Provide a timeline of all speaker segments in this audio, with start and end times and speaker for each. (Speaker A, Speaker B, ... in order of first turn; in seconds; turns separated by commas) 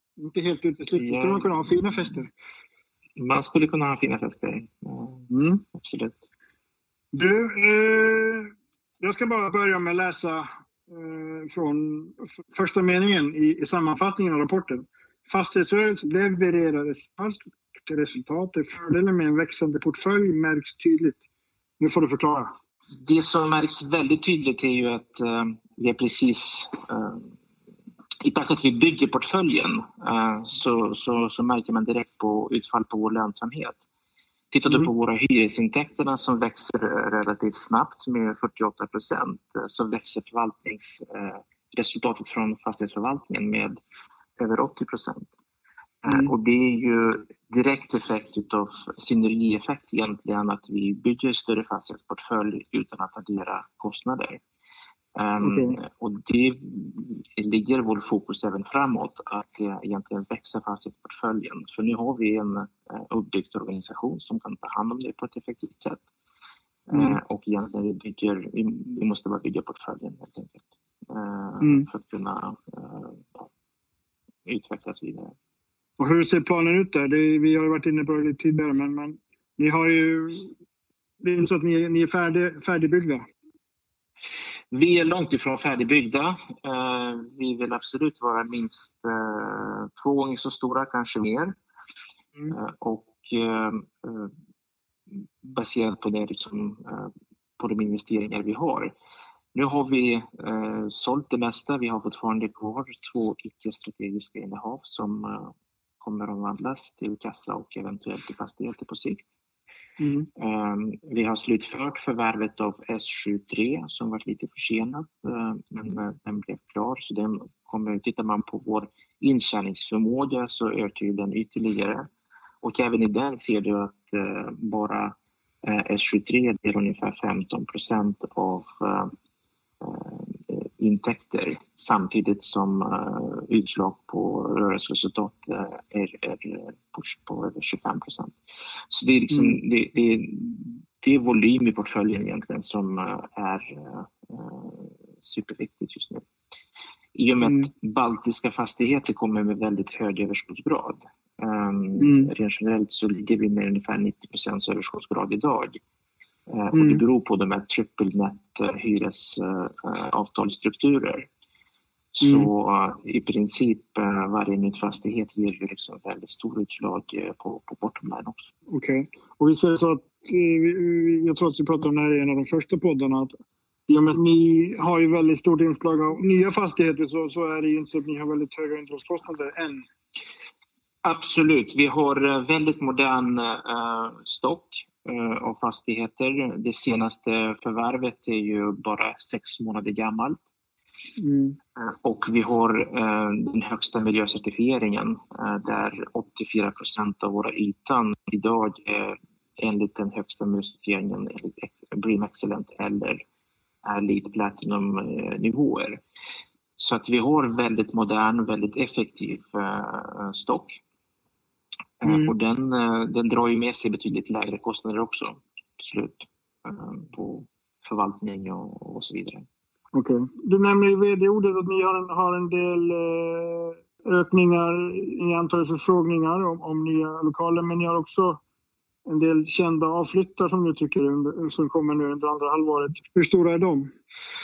Speaker A: 0.2-2.3, Speaker B: 0.9-2.2, Speaker B: 3.2-6.2, Speaker A: 5.3-5.6, Speaker A: 7.1-21.2, Speaker A: 21.8-22.5, Speaker B: 23.0-27.3, Speaker B: 28.2-33.8, Speaker B: 34.5-43.8, Speaker B: 44.4-45.3, Speaker B: 46.0-54.4, Speaker A: 46.0-46.3, Speaker B: 55.1-66.0, Speaker A: 55.4-55.8, Speaker B: 66.9-73.5, Speaker A: 66.9-67.2, Speaker A: 71.6-71.9, Speaker B: 74.5-75.3, Speaker A: 76.0-80.5, Speaker A: 81.2-83.2, Speaker B: 84.7-91.5, Speaker B: 92.5-94.3, Speaker B: 95.4-98.9, Speaker B: 99.5-109.2, Speaker A: 110.0-110.3, Speaker B: 110.4-122.1, Speaker B: 122.6-129.1, Speaker B: 129.8-138.3, Speaker B: 138.9-146.2, Speaker A: 139.3-139.6, Speaker B: 147.1-155.8, Speaker A: 147.4-147.7, Speaker A: 152.0-152.3, Speaker B: 156.5-161.3, Speaker A: 156.7-157.0, Speaker B: 162.1-168.5, Speaker A: 162.2-162.5, Speaker A: 168.7-173.3, Speaker A: 173.9-179.8, Speaker B: 181.0-190.4, Speaker A: 191.2-191.6, Speaker B: 191.8-203.2, Speaker B: 203.8-206.0, Speaker B: 206.8-210.8, Speaker B: 212.0-219.4, Speaker A: 212.0-212.3, Speaker A: 219.9-228.4, Speaker A: 229.1-233.9